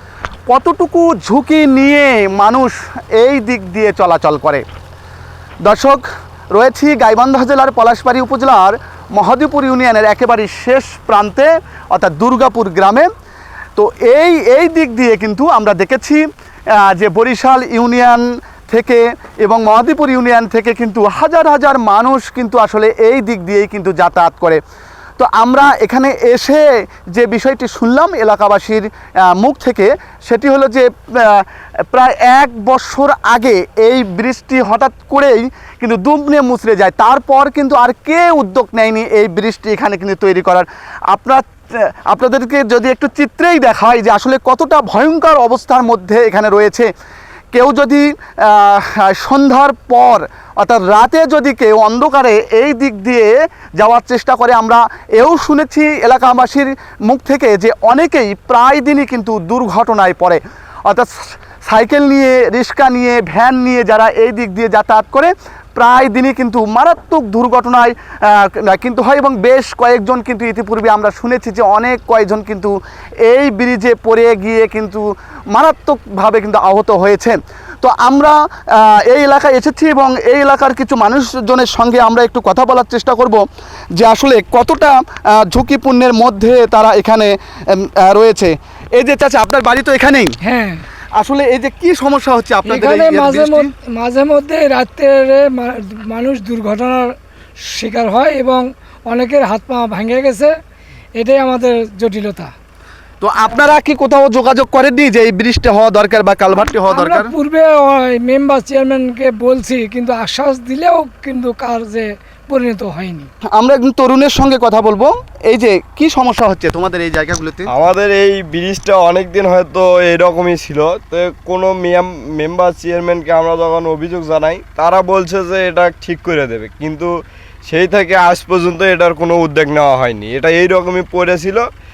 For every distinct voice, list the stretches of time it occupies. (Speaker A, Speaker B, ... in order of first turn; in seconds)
Speaker A: 0.5-4.6, 5.6-13.1, 13.8-16.2, 16.8-24.6, 25.2-46.9, 47.5-83.4, 84.0-90.3, 91.2-93.7, 103.2-107.3, 113.5-117.7
Speaker B: 90.4-90.8, 92.7-97.1, 97.7-100.5, 101.2-102.5, 106.9-113.3
Speaker C: 117.7-127.1, 127.7-131.7